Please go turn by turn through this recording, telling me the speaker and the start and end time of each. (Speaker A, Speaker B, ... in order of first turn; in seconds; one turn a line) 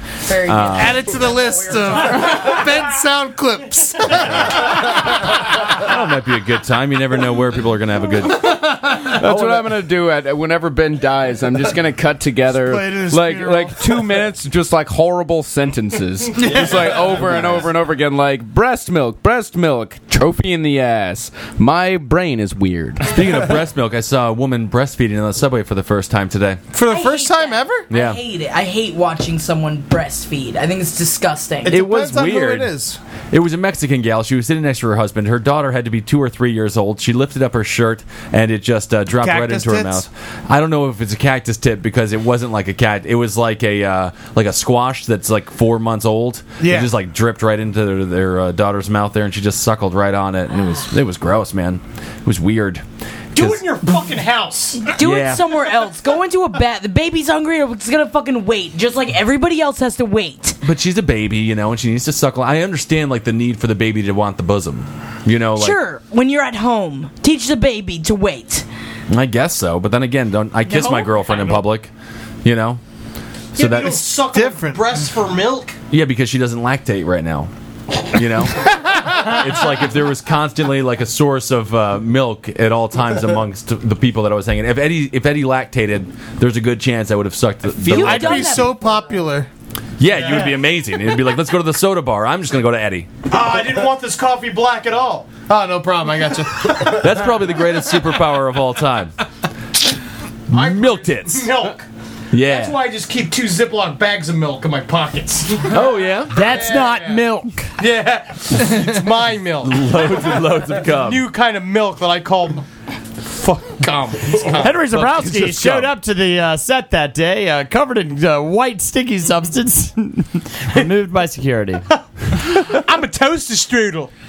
Speaker A: 0.2-2.6
Speaker B: 0.3-1.0
Speaker C: 0.7-5.0
Speaker B: 4.2-8.8
Speaker C: 8.4-9.4
Speaker D: 8.9-23.2
Speaker C: 12.5-14.2
Speaker C: 16.4-17.3
Speaker B: 23.1-26.6
Speaker C: 26.7-27.9
Speaker A: 26.9-31.8
Speaker B: 27.9-28.2
Speaker C: 31.6-33.0
Speaker B: 31.7-32.7
Speaker B: 33.3-52.8
Speaker C: 39.2-40.0
Speaker C: 46.6-46.9
Speaker E: 53.3-54.9
Speaker B: 53.4-53.7
Speaker A: 54.8-60.6
Speaker B: 55.0-55.5
Speaker B: 60.6-65.8
Speaker A: 65.5-68.7
Speaker B: 69.1-71.9
Speaker A: 70.6-71.6
Speaker B: 72.4-72.8
Speaker B: 73.5-74.0
Speaker E: 73.5-75.7
Speaker C: 74.2-75.0
Speaker B: 75.9-77.5
Speaker B: 78.1-88.6
Speaker C: 87.8-89.5
Speaker A: 87.8-88.8
Speaker B: 90.0-93.1
Speaker E: 90.0-90.6
Speaker E: 93.3-95.4
Speaker C: 95.4-97.1
Speaker B: 96.9-99.1
Speaker B: 100.5-101.7
Speaker E: 101.3-101.8
Speaker B: 102.3-102.8
Speaker E: 102.4-105.8
Speaker B: 105.7-106.5
Speaker F: 106.3-107.7
Speaker C: 106.6-107.2
Speaker E: 107.8-112.6
Speaker C: 108.7-109.0
Speaker B: 109.6-111.2
Speaker E: 113.3-114.8
Speaker F: 114.4-121.8
Speaker B: 114.8-115.9
Speaker E: 121.9-124.1